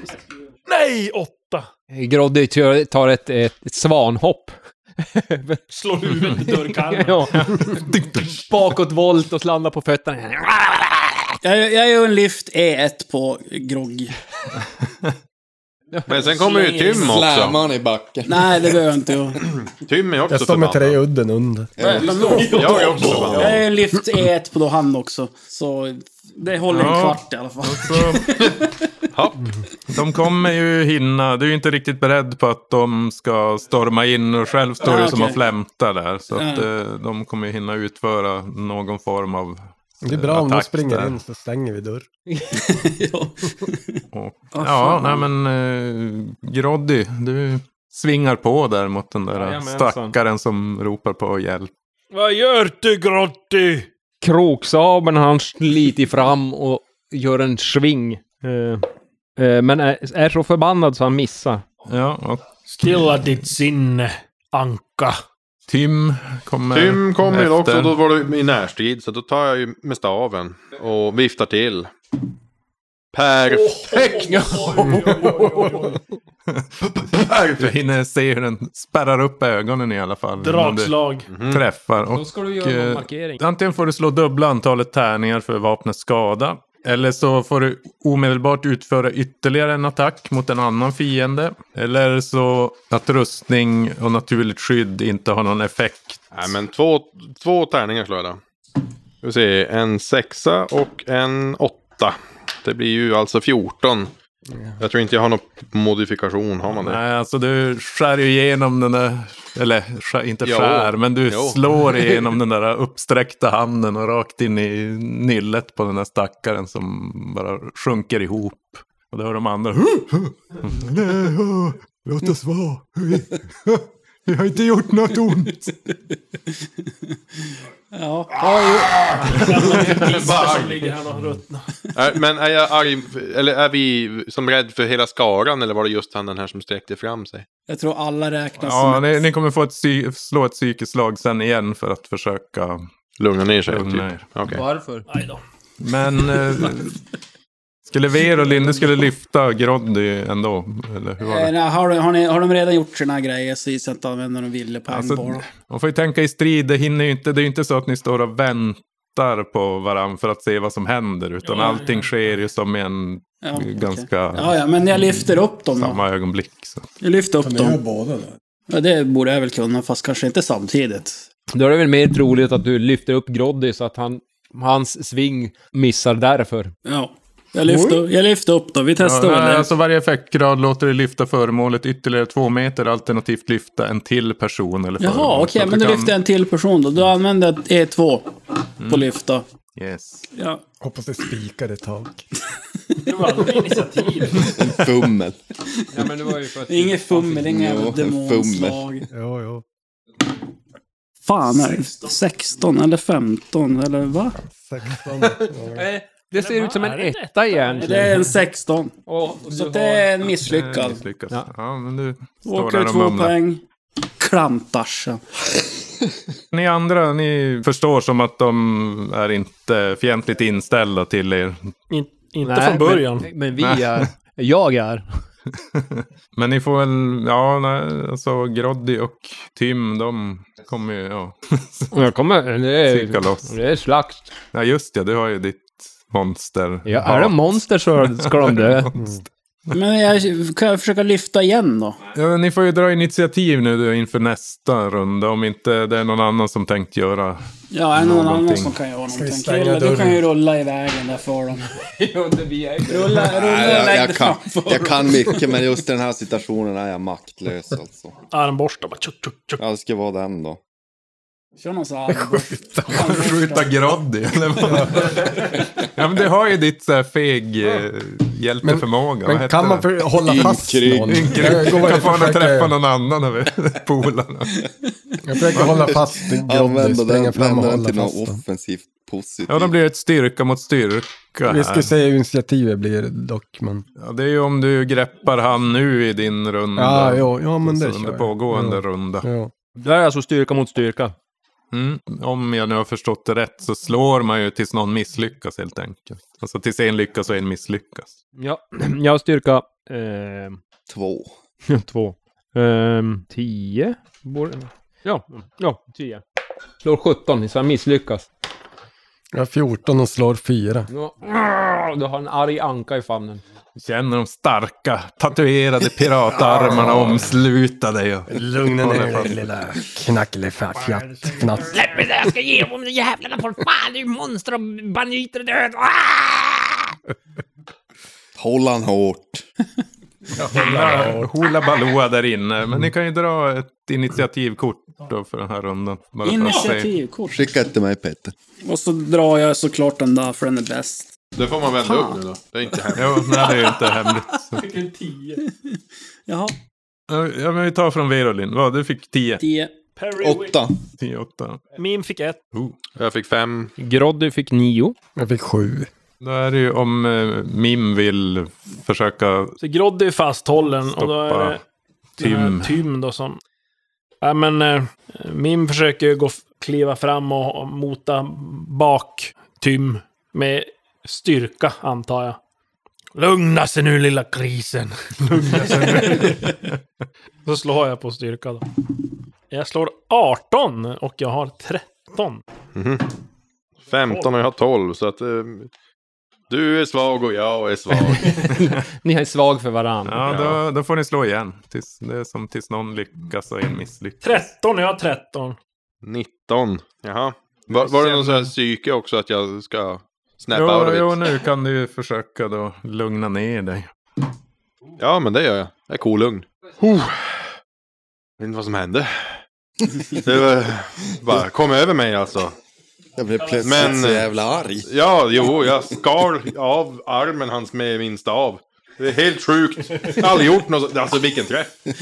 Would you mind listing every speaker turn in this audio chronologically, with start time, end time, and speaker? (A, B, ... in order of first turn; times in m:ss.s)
0:00.6-0:01.7 A
0:01.9-0:05.6 B
0:05.7-0:07.4 A
0:06.2-0:11.2 B
0:07.3-0:08.5 C
0:11.4-0:14.1 D
0:15.9-0:16.3 B
0:16.1-0:17.6 E
0:16.3-0:16.9 A
0:16.9-0:18.8 F
0:18.2-0:19.4 D
0:19.6-0:21.0 E
0:20.3-0:21.8 G
0:21.8-0:23.2 F
0:21.8-0:28.6 D
0:22.3-0:22.8 A
0:22.4-0:23.6 E
0:26.7-0:28.3 C
0:29.1-0:29.4 E
0:29.9-0:41.2 C
0:34.8-0:35.4 D
0:36.3-0:36.7 D
0:40.0-0:42.1 G
0:42.6-0:44.0 D
0:44.1-0:51.7 C
0:44.5-0:45.2 D
0:49.3-0:50.2 B
0:52.1-0:53.9 A
0:54.2-0:58.8 B
0:59.4-1:01.6 B
1:01.9-1:03.0 C
1:02.7-1:05.2 A
1:05.7-1:07.9 C
1:06.7-1:11.9 E
1:13.1-1:14.2 E
1:13.4-1:16.0 A
1:13.9-1:15.8 B
1:14.8-1:16.0 G
1:16.5-1:36.5 C
1:20.4-1:21.3 A
1:21.3-1:21.6 E
1:22.1-1:23.4 B
1:36.3-1:38.4 E
1:39.2-1:44.1 E
1:44.8-1:47.0 E
1:46.7-2:05.8 C
1:50.4-1:52.2 E
2:07.9-2:09.4 D
2:09.2-2:11.7 A
2:10.2-2:10.7 E
2:11.9-2:17.4 E
2:17.7-2:19.2 D
2:18.6-2:22.8 C
2:23.2-2:24.6 E
2:23.7-2:24.2 C
2:24.5-2:25.0 B
2:25.1-2:25.4 A
2:25.8-2:27.0 C
2:27.9-2:31.5 C
2:31.2-2:35.4 D
2:34.9-2:46.9 C
2:41.4-2:42.1 A
2:43.4-2:46.0 D
2:47.0-2:47.8 D
2:47.4-2:48.4 G
2:48.7-2:51.2 D
2:51.5-2:56.7 B
2:56.8-2:59.7 D
2:57.7-2:58.0 B
2:59.0-3:06.1 C
3:05.0-3:09.4 D
3:08.8-3:09.1 C
3:09.7-3:10.3 C
3:10.3-3:10.6 D
3:10.8-3:12.2 G
3:13.0-3:14.5 A
3:14.4-3:15.4 F
3:15.9-3:17.5 B
3:16.7-3:19.1 D
3:17.4-3:18.8 F
3:19.1-3:19.6 G
3:21.2-3:24.4 D
3:21.8-3:22.1 A
3:24.5-3:25.8 G
3:25.7-3:28.3 B
3:26.3-3:28.2 A
3:27.8-3:28.9 D
3:29.1-3:30.1 B
3:29.5-3:31.0 D
3:30.4-3:33.4 C
3:32.4-3:33.6 D
3:34.2-3:35.2 D
3:36.5-3:41.7 C
3:41.9-3:43.3 A
3:42.4-3:45.2 B
3:43.6-3:44.1 C
3:45.7-3:51.9 C
3:51.9-3:54.3 B
3:52.8-3:53.5 C
3:54.5-3:59.0 C
3:56.8-3:58.9 B
3:59.7-4:02.0 D
4:02.1-4:07.4 C
4:07.7-4:11.7 D
4:07.9-4:08.8 C
4:09.1-4:10.2 G
4:12.0-4:13.4 B
4:12.8-4:15.3 D
4:13.2-4:18.1 F
4:18.3-4:19.6 A
4:19.6-4:20.6 F
4:21.6-4:23.7 D
4:22.2-4:22.9 G
4:22.9-4:30.4 C
4:24.6-4:25.1 G
4:28.6-4:32.8 G
4:30.4-4:31.1 E
4:30.4-4:31.2 F
4:31.1-4:34.7 C
4:35.2-4:38.4 G
4:35.5-4:36.0 C
4:35.6-4:39.7 F
4:39.5-4:41.9 C
4:41.4-4:43.8 G
4:44.0-4:49.3 C
4:46.7-4:49.5 G
4:49.8-4:51.1 B
4:51.7-4:58.1 C
4:58.4-5:00.6 B
5:00.9-5:01.3 F
5:01.7-5:06.2 B
5:06.8-5:08.3 B
5:09.3-5:10.9 G
5:10.9-5:13.4 B
5:13.8-5:19.5 C
5:16.7-5:17.2 G
5:18.3-5:21.7 G
5:20.7-5:21.8 A
5:21.7-5:26.9 H
5:28.4-5:29.4 F
5:30.4-5:31.3 G
5:30.4-5:36.9 C
5:36.2-5:37.5 D
5:37.3-5:38.3 F
5:38.6-5:41.1 D
5:41.4-5:43.3 E
5:41.8-5:42.2 D
5:42.9-5:44.6 C
5:44.5-5:45.4 A
5:46.3-5:46.5 D
5:47.1-5:49.4 C
5:49.4-5:49.7 D
5:50.0-5:50.6 A
5:50.2-5:50.7 F
5:51.0-5:51.7 C
5:51.8-5:52.4 A
5:53.0-5:53.7 E
5:53.8-5:55.0 B
5:55.2-5:55.9 G
5:56.2-5:59.5 C
5:59.6-6:01.6 A
6:00.8-6:01.6 C
6:02.2-6:03.4 A
6:02.2-6:02.8 C
6:04.2-6:12.4 A
6:13.1-6:16.6 A
6:15.5-6:16.7 C
6:17.4-6:18.8 A
6:19.5-6:22.4 A
6:22.7-6:23.1 E
6:23.9-6:25.7 E
6:24.0-6:24.3 A
6:26.5-6:28.5 E
6:28.4-6:30.4 B
6:30.0-6:34.3 C
6:30.2-6:30.6 E
6:34.2-6:35.6 A
6:36.0-6:41.3 E
6:40.5-6:43.9 C
6:45.0-6:47.4 E
6:48.4-6:49.4 E
6:50.1-6:52.5 E
6:53.2-6:55.0 F
6:53.6-6:54.3 E
6:54.8-7:01.8 E